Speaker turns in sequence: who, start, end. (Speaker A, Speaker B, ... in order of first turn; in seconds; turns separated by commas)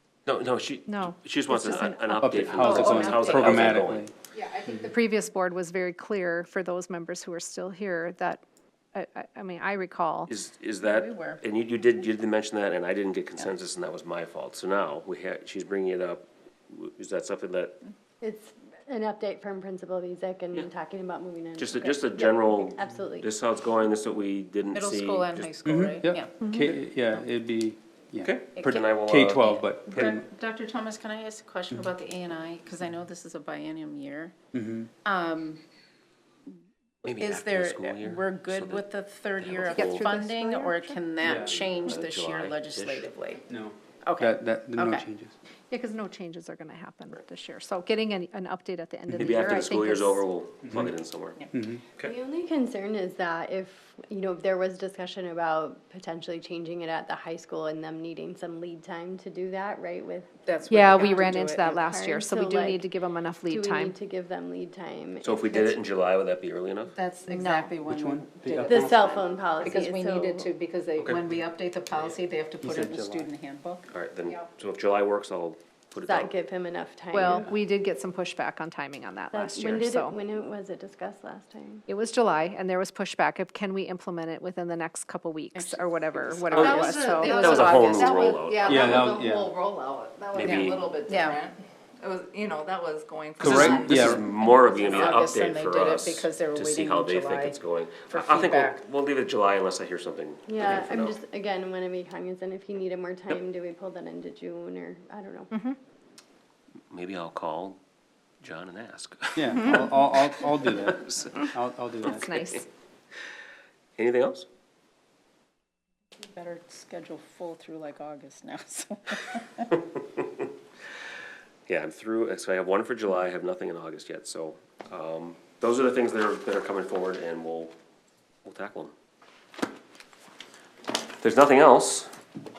Speaker A: 0.2-4.1, Speaker B: 0.9-3.1, Speaker C: 2.1-4.1, Speaker D: 2.6-3.8, Speaker B: 4.3-8.4, Speaker B: 8.9-10.3, Speaker A: 10.3-17.8, Speaker D: 10.8-11.4, Speaker E: 18.2-23.3, Speaker A: 21.6-25.5, Speaker D: 24.7-26.4, Speaker C: 25.6-30.2, Speaker A: 28.2-30.2, Speaker D: 28.6-28.8, Speaker D: 29.9-34.3, Speaker C: 34.5-34.9, Speaker D: 35.0-35.6, Speaker A: 37.0-40.1, Speaker D: 37.1-43.4, Speaker B: 39.8-41.0, Speaker C: 41.2-41.6, Speaker A: 41.3-43.1, Speaker C: 43.5-45.3, Speaker D: 44.0-45.1, Speaker B: 45.7-50.2, Speaker A: 49.2-51.4, Speaker C: 50.7-50.9, Speaker C: 51.5-51.8, Speaker E: 52.0-62.9, Speaker D: 60.4-61.8, Speaker B: 60.7-64.0, Speaker E: 63.4-65.8, Speaker A: 65.2-66.9, Speaker D: 66.9-73.8, Speaker B: 67.3-67.7, Speaker C: 67.9-69.2, Speaker E: 68.6-70.5, Speaker C: 72.6-73.3, Speaker A: 73.9-76.3, Speaker E: 76.0-77.5, Speaker B: 77.1-80.2, Speaker E: 79.3-81.8, Speaker B: 81.9-88.2, Speaker D: 85.5-86.7, Speaker A: 86.5-89.0, Speaker F: 86.5-94.2, Speaker C: 88.7-89.5, Speaker A: 90.3-90.8, Speaker D: 90.4-91.4, Speaker C: 93.4-94.2, Speaker A: 93.4-101.2, Speaker D: 94.2-98.8, Speaker E: 100.5-105.5, Speaker B: 105.5-105.8, Speaker A: 106.9-107.8, Speaker A: 108.4-111.4, Speaker C: 109.3-112.3, Speaker D: 109.6-109.9, Speaker B: 112.1-112.6, Speaker A: 114.0-114.5, Speaker D: 116.2-119.7, Speaker A: 121.7-127.7, Speaker A: 128.4-128.9, Speaker A: 131.2-132.1